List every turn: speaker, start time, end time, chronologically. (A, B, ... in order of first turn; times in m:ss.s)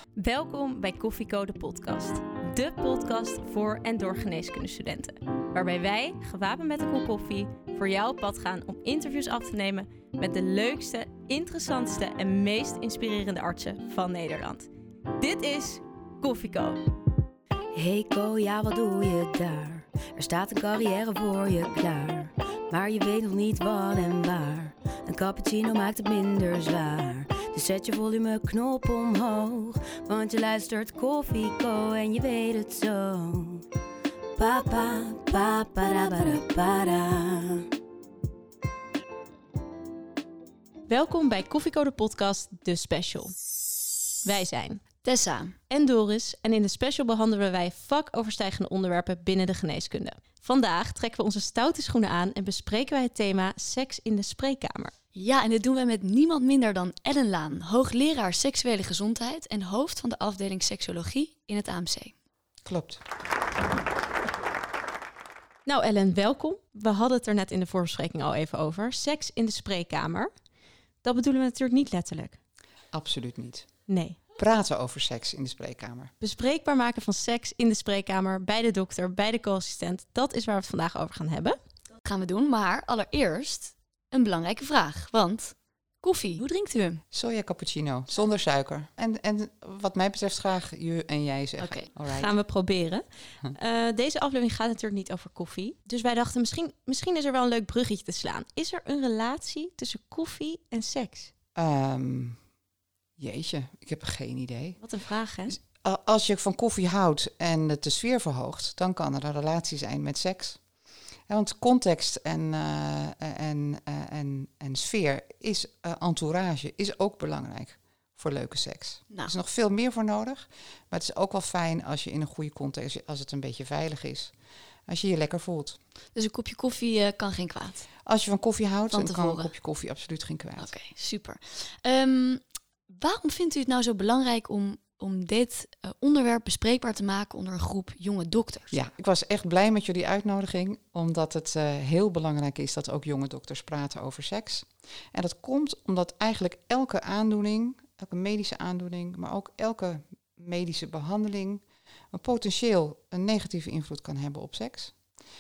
0:00.2-0:16.8 A
0:17.8-0:33.7 B
0:34.4-0:37.7 B
0:40.9-0:43.3 A
0:44.2-0:44.8 A
0:45.0-0:45.6 C
0:45.7-0:54.9 A
0:55.2-1:02.2 C
1:02.6-1:03.0 D
1:05.7-1:10.3 A
1:11.0-1:12.4 A
1:12.9-1:13.7 D
1:13.9-1:14.2 A
1:14.4-1:16.1 D
1:16.2-1:21.6 A
1:22.0-1:27.0 C
1:27.1-1:32.3 D
1:31.6-1:31.9 C
1:32.1-1:33.0 A
1:33.6-1:41.3 A
1:41.6-1:42.4 D
1:43.2-1:44.8 D
1:44.8-1:45.6 A
1:45.5-1:50.6 D
1:51.3-2:04.3 D
2:04.9-2:05.8 D
2:06.2-2:07.9 C
2:08.0-2:10.7 D
2:08.9-2:09.5 C
2:10.6-2:18.8 C
2:18.7-2:35.0 D